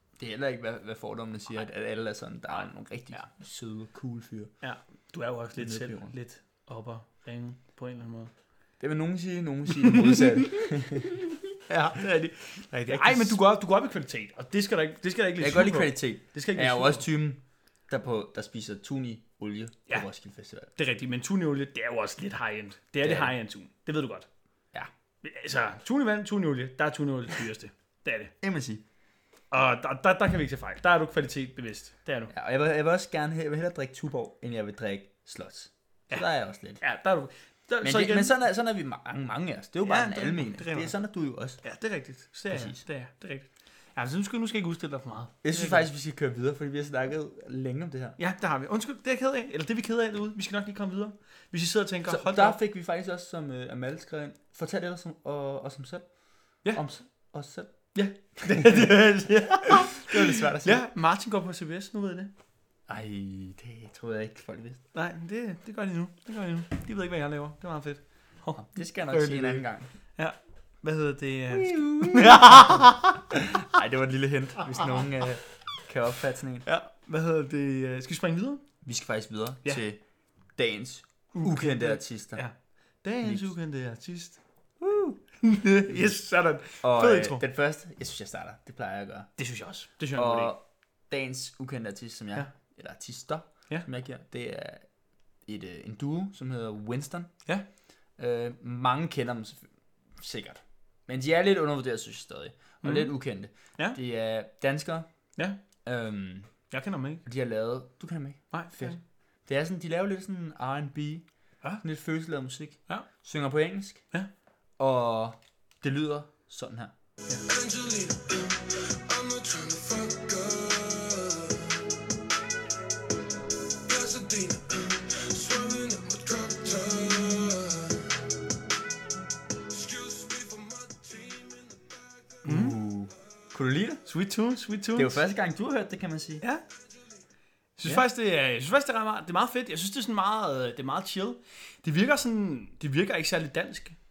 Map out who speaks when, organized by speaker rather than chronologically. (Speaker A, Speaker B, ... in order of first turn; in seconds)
Speaker A: 0.2-4.5, 5.6-6.1, 8.8-11.1, 12.8-13.4, 15.4-20.7, 23.0-23.3, 28.4-28.8, 32.3-36.8, 37.8-41.6, 42.5-42.8, 45.4-48.2, 52.1-58.9, 59.7-60.8, 62.9-64.8, 68.5-69.9, 71.5-76.7, 78.8-80.0, 80.5-82.4, 84.8-85.2, 85.9-86.1, 86.8-89.3, 90.1-94.9, 95.4-97.4, 98.2-105.1, 105.8-106.7, 107.2-111.2, 111.8-114.0, 114.8-116.9, 132.4-134.0, 134.9-136.4
Speaker B: 2.5-3.3, 4.6-8.3, 9.8-10.6, 11.7-17.1, 20.7-24.3, 25.2-28.3, 29.5-32.3, 36.8-38.3, 39.8-40.9, 41.6-45.9, 48.2-52.6, 57.9-62.3, 64.9-73.2, 76.6-78.6, 81.3-84.4, 85.4-87.4, 89.4-90.5, 102.8-103.1, 106.7-107.2, 108.5-109.0, 132.4-132.8, 134.0-135.2, 137.8-144.0
Speaker C: 117.5-121.8, 123.7-128.2, 129.7-132.3